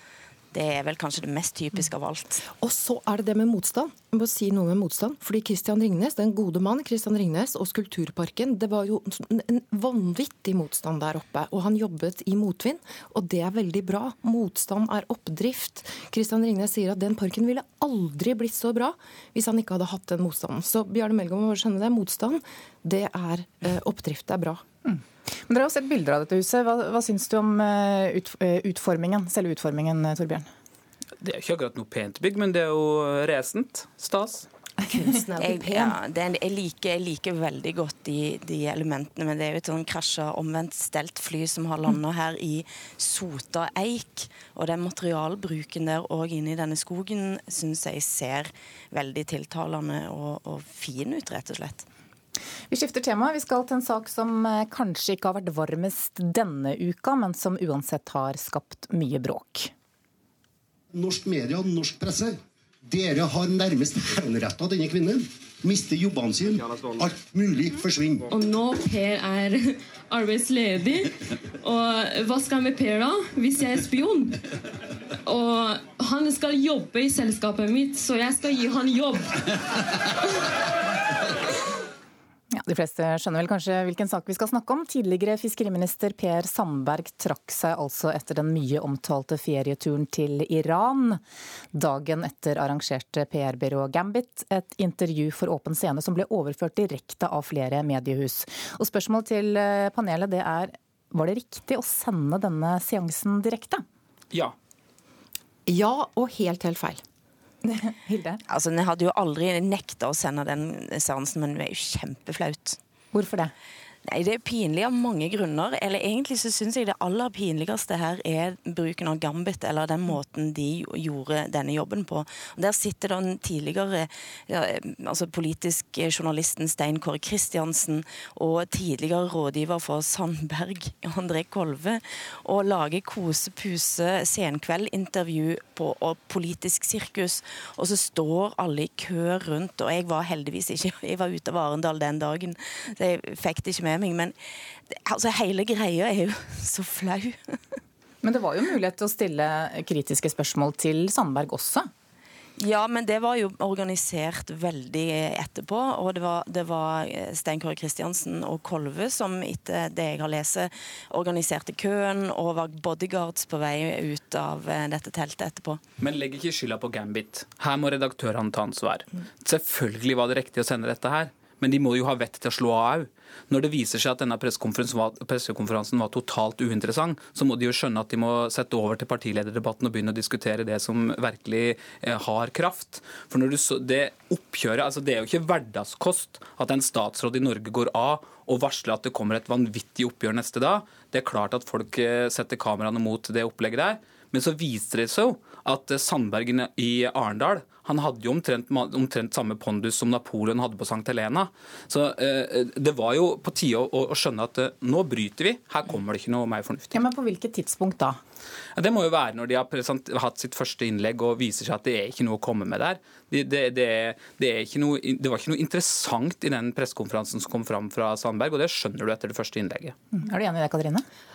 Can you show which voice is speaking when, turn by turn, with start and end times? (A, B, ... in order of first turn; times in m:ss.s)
0:00.5-0:02.5 A
0:02.6-0:24.6 B
0:24.8-0:30.5 C
0:31.2-0:34.5 D
0:34.8-0:36.0 B
0:35.4-0:51.9 A
0:52.7-0:59.7 C
1:00.9-1:08.3 E
1:08.3-1:14.4 F
1:15.3-1:19.4 F
1:22.5-1:31.2 C
1:31.8-1:43.8 C
1:45.7-1:47.0 B
1:47.6-1:48.4 C
1:48.5-1:52.8 A
1:53.1-1:53.5 C
1:54.1-2:24.4 A
2:25.1-2:27.6 A
2:28.2-2:31.9 C
2:32.6-2:45.8 A
2:46.0-3:27.0 D
3:26.9-3:28.2 C
3:28.8-3:40.0 D
3:40.1-3:41.0 C